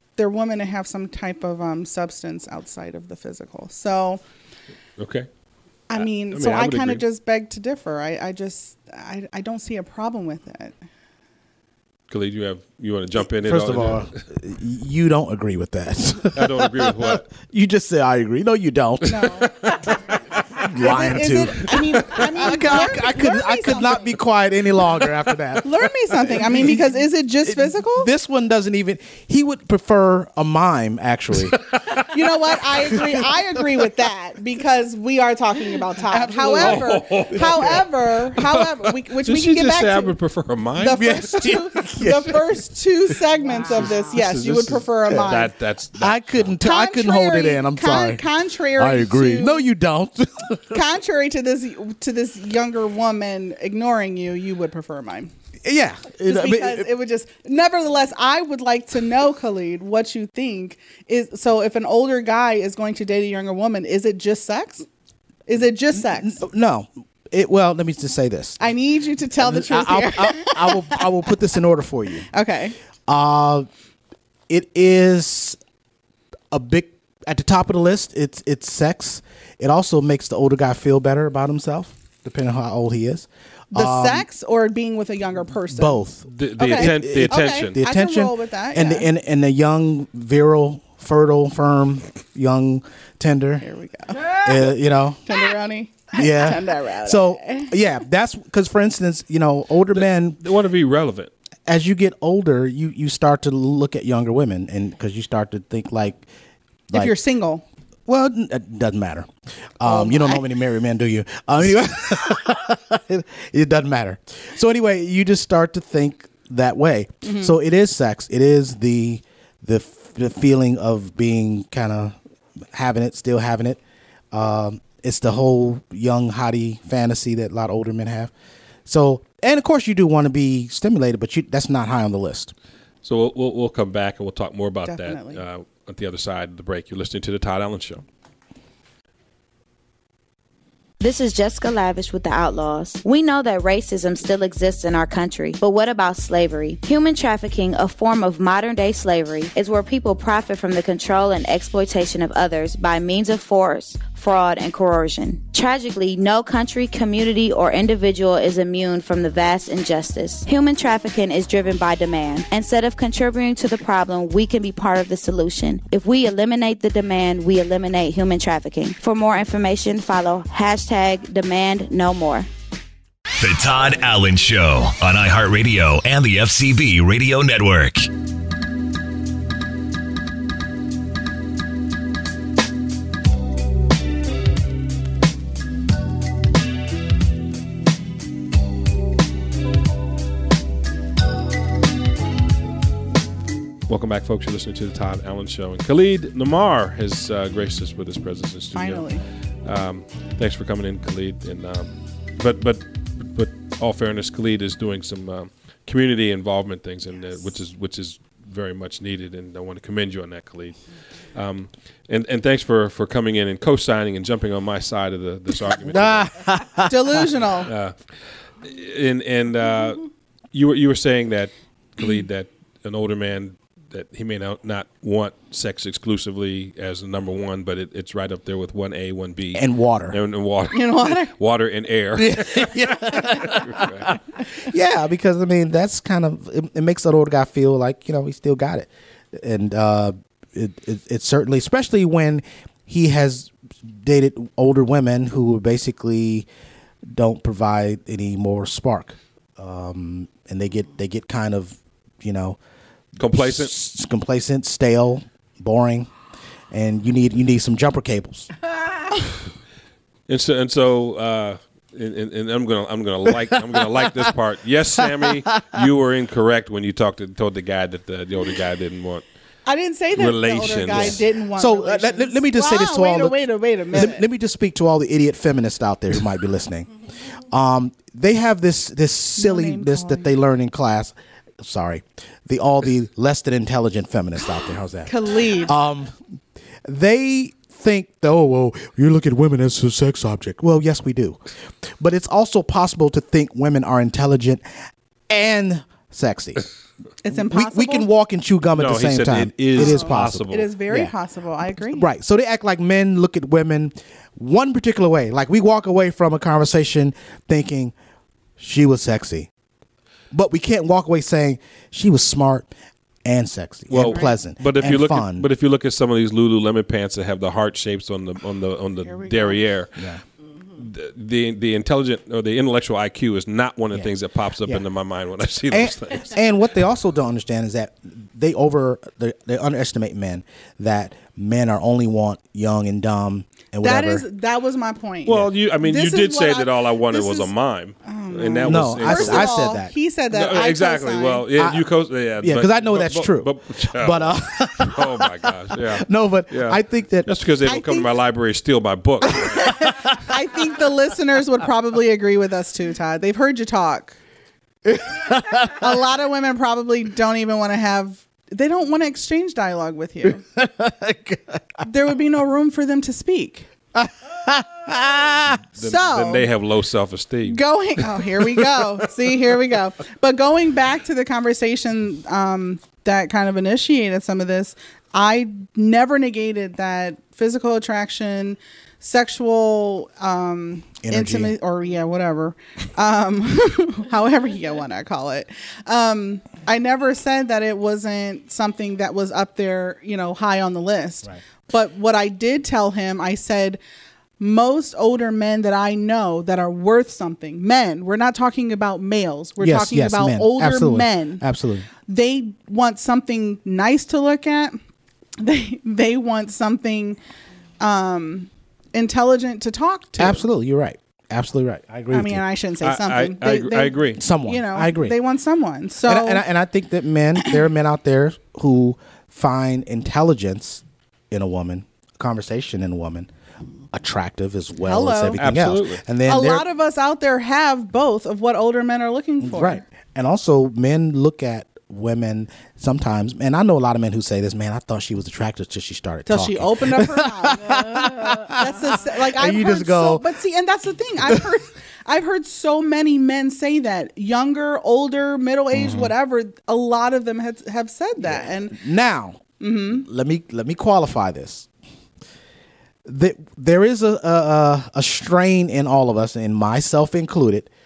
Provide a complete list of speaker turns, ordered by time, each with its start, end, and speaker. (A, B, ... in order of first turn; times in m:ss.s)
0:00.2-0:04.2 A
0:05.0-0:05.3 B
0:05.9-0:10.8 A
0:05.9-0:07.0 B
0:12.1-0:14.1 B
0:13.2-0:19.2 C
0:16.3-0:17.2 B
0:19.1-0:19.7 A
0:20.6-0:25.7 C
0:20.6-0:24.2 A
0:25.6-0:28.1 A
0:26.3-0:26.8 C
0:27.4-0:31.7 C
0:32.1-0:40.2 A
0:32.9-0:33.8 C
0:36.1-0:36.8 C
0:36.4-0:41.2 B
0:37.4-0:37.8 C
0:40.8-0:45.5 A
0:40.9-0:42.6 C
0:43.7-0:46.6 B
0:44.4-0:45.4 C
0:45.9-0:48.2 C
0:46.6-0:49.7 A
0:48.8-0:50.8 C
0:50.7-0:55.3 A
0:55.6-0:56.9 C
0:56.2-1:04.8 A
1:05.5-1:06.4 A
1:05.9-1:08.6 C
1:08.6-1:11.1 A
1:09.4-1:12.3 C
1:12.3-1:12.7 A
1:13.1-1:13.7 C
1:14.5-1:15.6 C
1:16.5-1:24.3 C
1:23.7-1:26.0 A
1:25.7-1:33.6 C
1:26.3-1:27.8 B
1:26.6-1:29.1 A
1:33.6-1:34.7 A
1:34.3-1:35.2 C
1:35.2-1:37.7 A
1:36.1-1:40.4 C
1:39.9-1:41.3 B
1:41.7-1:46.2 C
1:46.9-1:47.6 A
1:48.1-1:49.3 C
1:49.8-2:02.2 C
1:49.8-1:50.5 A
1:57.2-1:57.6 A
2:02.7-2:03.8 C
2:04.3-2:08.3 C
2:08.8-2:12.5 C
2:13.0-2:18.0 B
2:14.8-2:15.4 A
2:21.0-2:52.5 D
2:53.4-2:58.1 E
3:13.9-3:19.1 B
3:18.7-3:19.2 A
3:19.6-3:30.8 B
3:31.3-3:36.3 B
3:35.8-3:37.3 C
3:36.9-3:37.7 A
3:37.6-3:38.0 B
3:38.6-3:40.0 B
3:40.5-3:54.1 B
3:49.5-3:50.2 C
3:50.7-3:51.3 A
3:52.2-3:54.2 C
3:54.7-4:06.4 C
4:07.1-4:12.6 C
4:13.2-4:13.7 B
4:13.2-4:16.1 C
4:16.7-4:18.5 C
4:20.3-4:29.2 B
4:29.6-4:34.3 A
4:30.1-4:31.2 B
4:30.9-4:36.9 C
4:37.5-4:46.1 C
4:39.4-4:40.3 A
4:45.0-4:45.8 A
4:46.8-4:51.4 C
4:52.0-4:54.6 C
4:55.3-4:56.6 C
4:57.2-4:58.1 A
4:57.3-5:01.1 C
4:58.8-5:00.7 B
4:59.7-5:02.1 A
5:01.8-5:07.9 C
5:08.6-5:09.5 C
5:10.3-5:12.7 C
5:13.2-5:15.5 C
5:13.9-5:20.0 B
5:14.0-5:14.3 A
5:19.0-5:19.6 A
5:20.8-5:26.4 B
5:25.7-5:34.3 C
5:33.8-5:37.5 A
5:35.2-5:39.6 B
5:38.0-5:41.5 A
5:38.6-5:39.9 C
5:40.3-5:49.7 B
5:41.5-5:41.8 C
5:42.4-5:47.3 C
5:47.6-5:48.1 A
5:49.5-5:54.2 A
5:54.9-5:55.7 C
5:55.6-6:00.4 A
6:00.6-6:01.6 C
6:01.8-6:03.7 A
6:04.0-6:05.6 C
6:05.8-6:06.5 A
6:05.8-6:07.6 B
6:07.4-6:33.8 A
6:21.0-6:21.6 C
6:34.4-6:41.5 A
6:39.6-6:41.9 C
6:42.0-6:44.8 A
6:45.4-6:47.2 A
6:47.8-6:50.4 A
6:50.2-6:52.4 C
6:52.1-6:56.5 A
6:52.8-6:54.2 B
6:54.2-6:55.2 C
6:56.0-7:03.3 C
7:03.9-7:06.7 C
7:04.8-7:05.5 A
7:05.4-7:06.0 B
7:06.2-7:09.8 A
7:09.4-7:20.3 C
7:16.3-7:28.8 A
7:21.2-7:21.6 C
7:25.7-7:26.1 C
7:28.2-7:31.7 C
7:29.6-7:30.0 A
7:33.0-7:37.7 C